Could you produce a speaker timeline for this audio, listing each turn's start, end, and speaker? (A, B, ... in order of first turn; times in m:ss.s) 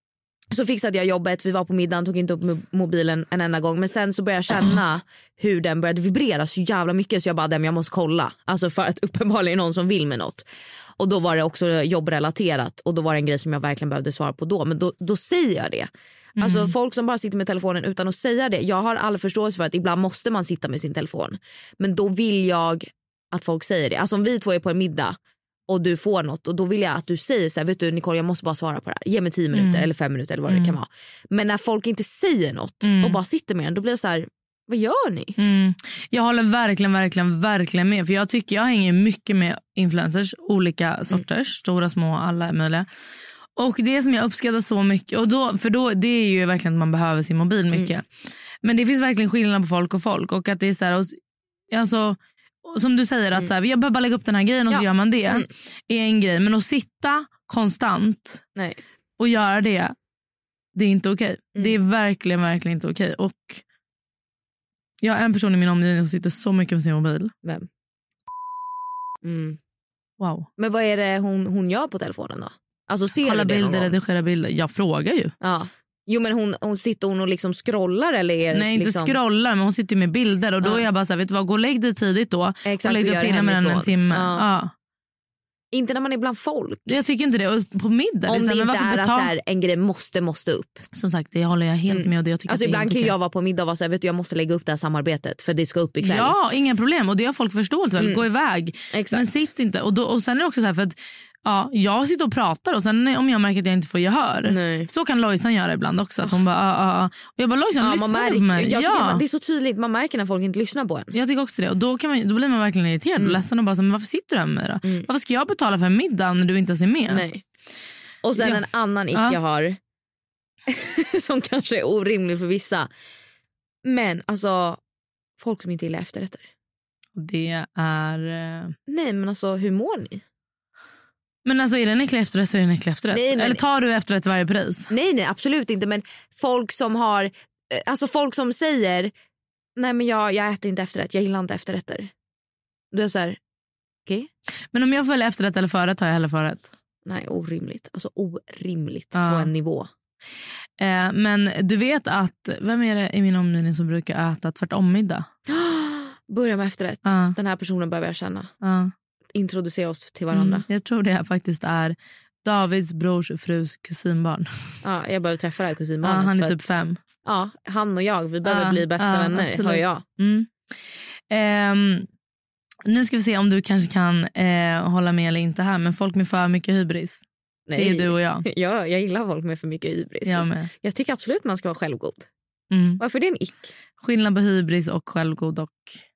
0:00.5-0:10.5 A
0:11.0-0:15.9 A
0:16.4-0:16.7 B
0:16.4-0:25.1 A
0:25.7-0:35.4 A
0:29.5-0:29.9 B
0:30.5-0:30.8 B
0:32.8-0:33.2 B
0:35.4-0:42.9 B
0:43.6-0:48.0 B
0:48.6-0:51.2 B
0:51.7-0:58.4 B
0:54.7-0:55.5 A
0:59.2-1:00.0 B
1:00.8-1:03.6 B
1:05.0-1:07.3 B
1:09.2-1:09.6 A
1:10.2-1:10.5 B
1:10.6-1:14.0 A
1:13.2-1:15.3 B
1:15.4-1:19.2 A
1:18.5-1:24.7 B
1:22.7-1:24.4 A
1:25.7-1:27.0 A
1:26.9-1:29.3 B
1:28.3-1:30.8 A
1:30.9-1:33.1 B
1:31.9-1:36.4 A
1:36.0-1:49.2 B
1:38.0-1:38.3 A
1:38.9-1:39.3 A
1:44.4-1:44.9 A
1:47.8-1:51.1 A
1:51.1-1:57.2 B
1:57.1-1:57.4 A
1:58.2-1:59.8 A
2:00.7-2:02.9 A
2:03.8-2:04.8 A
2:05.4-2:06.4 A
2:07.2-2:08.7 B
2:08.9-2:10.2 A
2:11.4-2:14.9 B
2:13.1-2:13.6 A
2:14.9-2:19.1 A
2:19.8-2:22.1 A
2:22.9-2:23.4 A
2:24.7-2:26.7 B
2:27.0-2:29.9 A
2:29.2-2:29.5 B
2:30.8-2:35.3 B
2:35.5-2:38.5 A
2:37.0-2:37.3 B
2:38.6-2:38.9 B
2:39.3-2:40.7 A
2:40.3-2:44.8 B
2:44.8-2:46.7 A
2:46.0-2:47.0 B
2:47.2-2:50.0 A
2:48.4-2:50.5 B
2:51.3-2:52.1 B
2:52.9-2:57.2 B
2:57.7-3:02.3 A
2:57.8-2:58.4 B
3:00.3-3:00.7 B
3:02.7-3:03.0 B
3:03.0-3:03.7 A
3:04.0-3:06.0 B